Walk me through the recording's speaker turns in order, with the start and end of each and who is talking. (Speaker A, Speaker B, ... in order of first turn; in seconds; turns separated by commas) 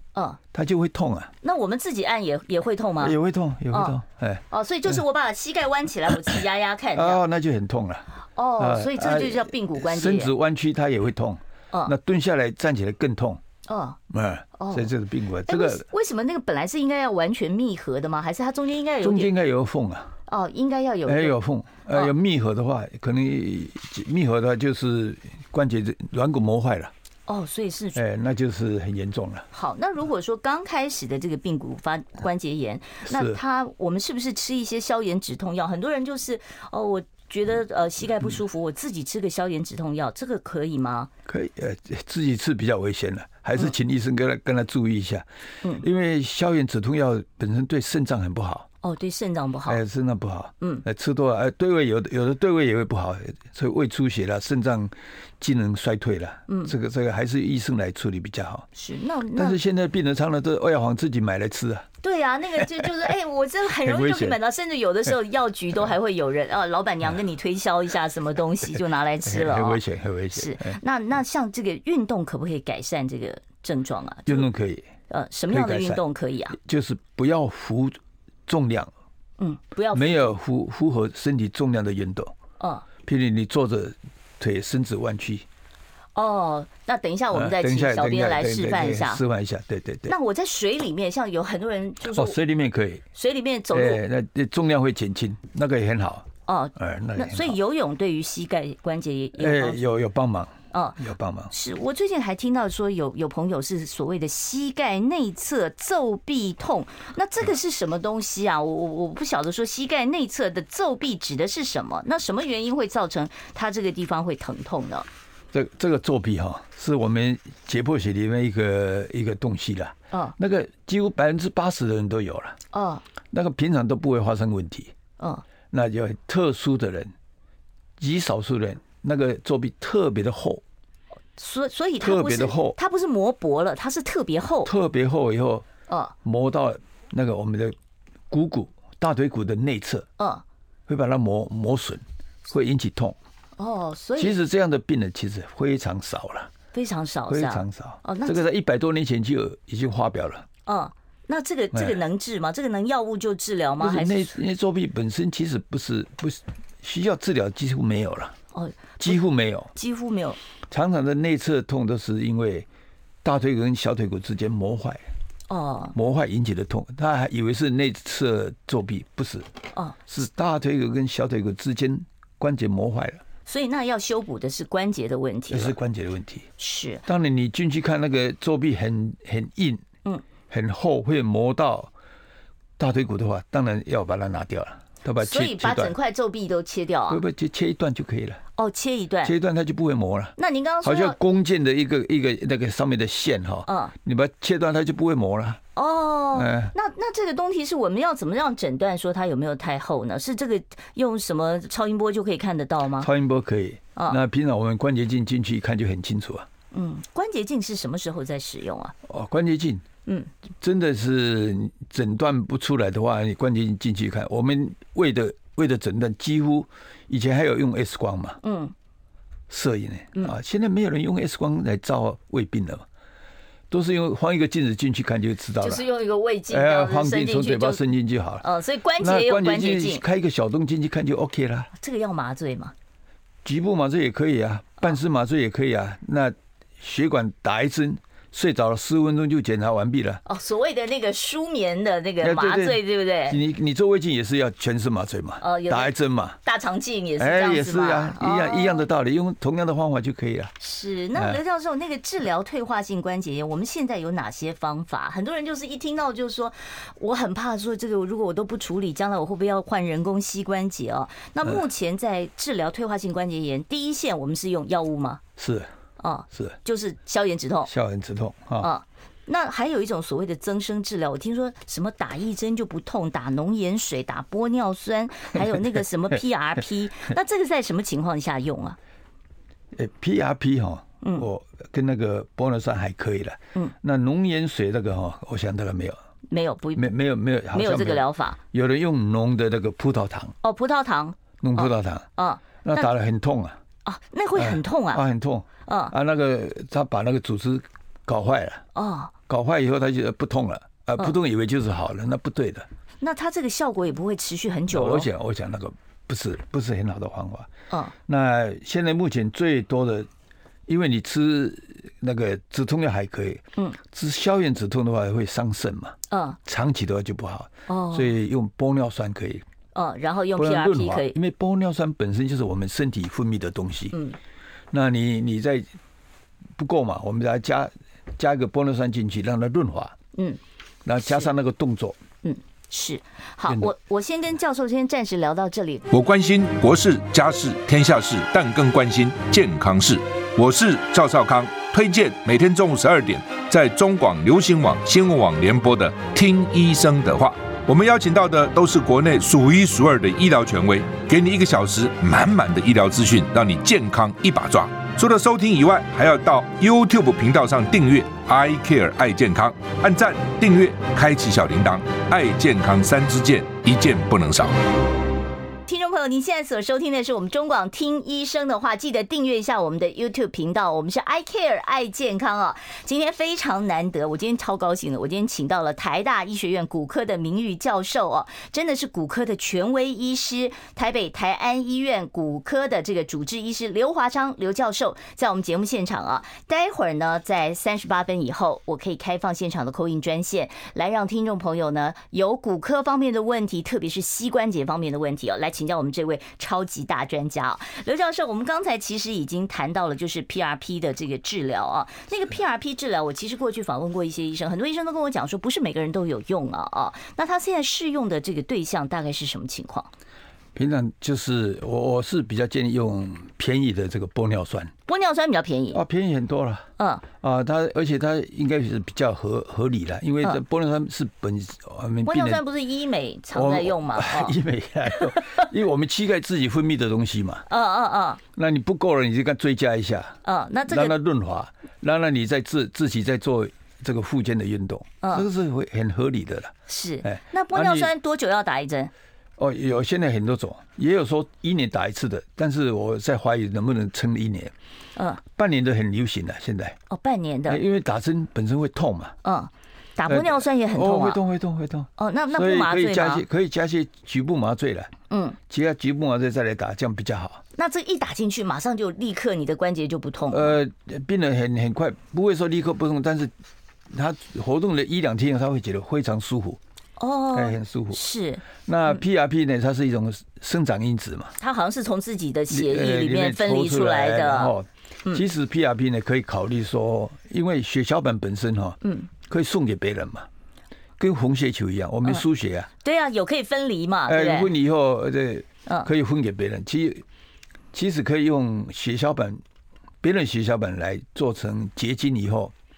Speaker A: 0.5-1.3, Speaker B: 1.4-3.1, Speaker A: 3.0-5.0, Speaker B: 3.7-4.0, Speaker B: 4.5-7.2, Speaker A: 6.9-13.4, Speaker B: 8.4-10.3, Speaker B: 13.7-14.0, Speaker A: 14.1-15.9, Speaker B: 14.6-14.9, Speaker B: 15.5-19.3, Speaker A: 19.0-20.1, Speaker B: 20.3-21.4, Speaker A: 21.1-26.9, Speaker B: 27.3-28.0, Speaker A: 28.0-29.5, Speaker B: 29.5-41.1, Speaker A: 33.1-33.4, Speaker A: 41.3-48.7, Speaker B: 48.8-49.8, Speaker A: 49.7-58.7, Speaker B: 56.5-56.7, Speaker B: 58.8-59.6, Speaker A: 59.4-61.9, Speaker B: 62.0-69.8, Speaker A: 63.8-64.4, Speaker A: 69.2-70.8, Speaker B: 70.3-74.5, Speaker A: 74.3-74.9, Speaker B: 75.1-76.6, Speaker A: 75.5-78.9, Speaker B: 79.4-80.3, Speaker A: 79.9-82.3, Speaker B: 82.6-82.9, Speaker A: 83.0-85.5, Speaker B: 86.2-89.2, Speaker A: 87.3-90.1, Speaker B: 90.1-92.4, Speaker A: 92.1-93.0, Speaker B: 93.2-94.0, Speaker A: 93.7-97.6, Speaker B: 96.5-99.8, Speaker A: 99.4-101.5, Speaker B: 100.7-101.0, Speaker B: 101.5-115.1, Speaker A: 115.5-122.6, Speaker B: 122.7-123.0, Speaker A: 123.3-124.9, Speaker B: 125.2-125.4, Speaker A: 125.7-127.2, Speaker A: 128.0-130.6, Speaker B: 131.4-134.7, Speaker A: 132.0-132.8, Speaker A: 134.6-135.7, Speaker A: 136.2-137.8, Speaker A: 138.3-140.1, Speaker B: 140.2-140.4, Speaker A: 140.9-143.2, Speaker B: 143.6-144.4, Speaker A: 144.2-146.5, Speaker B: 146.7-148.4, Speaker A: 147.3-150.5, Speaker B: 150.7-154.3, Speaker A: 151.7-152.0, Speaker A: 153.8-158.4, Speaker B: 158.5-159.2, Speaker A: 159.0-159.7, Speaker B: 159.8-160.4, Speaker A: 160.7-162.7, Speaker A: 163.2-165.1, Speaker B: 165.5-165.9, Speaker A: 165.9-169.5, Speaker A: 170.1-173.2, Speaker B: 173.5-175.8, Speaker A: 175.5-176.5, Speaker B: 176.6-177.0, Speaker A: 177.1-179.8, Speaker A: 180.5-181.9, Speaker A: 182.8-185.9, Speaker B: 185.2-187.2, Speaker A: 187.1-188.4, Speaker B: 188.6-189.3, Speaker A: 189.2-195.6, Speaker B: 190.4-191.2, Speaker B: 193.7-193.9, Speaker B: 195.8-203.1, Speaker A: 196.3-196.7, Speaker A: 203.0-206.5, Speaker B: 206.7-208.9, Speaker A: 209.1-209.8, Speaker A: 210.6-218.4, Speaker B: 218.4-218.7, Speaker A: 219.5-222.9, Speaker A: 223.7-225.9, Speaker B: 225.6-227.8, Speaker A: 226.5-228.5, Speaker B: 228.4-230.0, Speaker A: 229.0-231.7, Speaker B: 231.8-232.7, Speaker A: 233.4-240.2, Speaker B: 240.3-243.4, Speaker A: 242.2-246.4, Speaker B: 245.4-245.9, Speaker B: 246.4-248.8, Speaker A: 247.2-250.5, Speaker B: 250.6-265.2, Speaker A: 251.2-251.4, Speaker A: 265.4-265.7, Speaker B: 266.0-267.7, Speaker A: 267.7-268.7, Speaker B: 268.6-278.8, Speaker A: 279.8-286.0, Speaker B: 286.3-287.0, Speaker A: 286.8-290.4, Speaker B: 287.5-288.4, Speaker B: 290.4-292.9, Speaker A: 291.4-292.1, Speaker A: 292.6-293.6, Speaker B: 293.9-295.0, Speaker A: 294.4-298.6, Speaker B: 295.7-295.9, Speaker B: 298.8-299.1, Speaker A: 299.3-302.7, Speaker B: 303.0-305.1, Speaker A: 304.7-307.5, Speaker A: 308.1-310.1, Speaker A: 310.7-319.4, Speaker B: 316.1-316.4, Speaker B: 317.7-318.1, Speaker B: 319.7-321.2, Speaker A: 320.4-323.9, Speaker A: 324.7-325.7, Speaker A: 326.6-330.0, Speaker B: 330.1-330.4, Speaker A: 330.9-332.0, Speaker B: 331.0-331.3, Speaker B: 332.2-335.9, Speaker C: 335.9-364.6, Speaker B: 365.7-409.9, Speaker A: 410.6-414.7, Speaker B: 414.9-415.8, Speaker A: 415.7-422.4, Speaker B: 416.8-417.0, Speaker B: 422.0-424.4, Speaker A: 423.3-427.4, Speaker B: 424.9-425.4, Speaker B: 427.5-428.2, Speaker A: 428.4-437.9, Speaker B: 430.2-431.0, Speaker B: 436.7-438.9, Speaker A: 439.4-444.5, Speaker B: 445.0-445.2, Speaker A: 445.3-446.8, Speaker B: 446.9-447.6, Speaker A: 447.5-449.2, Speaker B: 449.2-451.2, Speaker A: 450.1-454.9, Speaker B: 452.0-453.2, Speaker B: 455.1-455.4, Speaker A: 455.5-457.4, Speaker B: 457.6-460.6, Speaker A: 460.3-463.3, Speaker A: 463.9-466.6, Speaker B: 467.0-468.4, Speaker A: 467.3-468.0, Speaker A: 468.6-471.4, Speaker B: 471.4-475.2, Speaker A: 472.5-480.3, Speaker B: 478.8-479.1, Speaker A: 481.0-482.7, Speaker B: 482.8-484.5, Speaker A: 484.1-487.0, Speaker A: 487.7-489.4, Speaker A: 490.0-492.5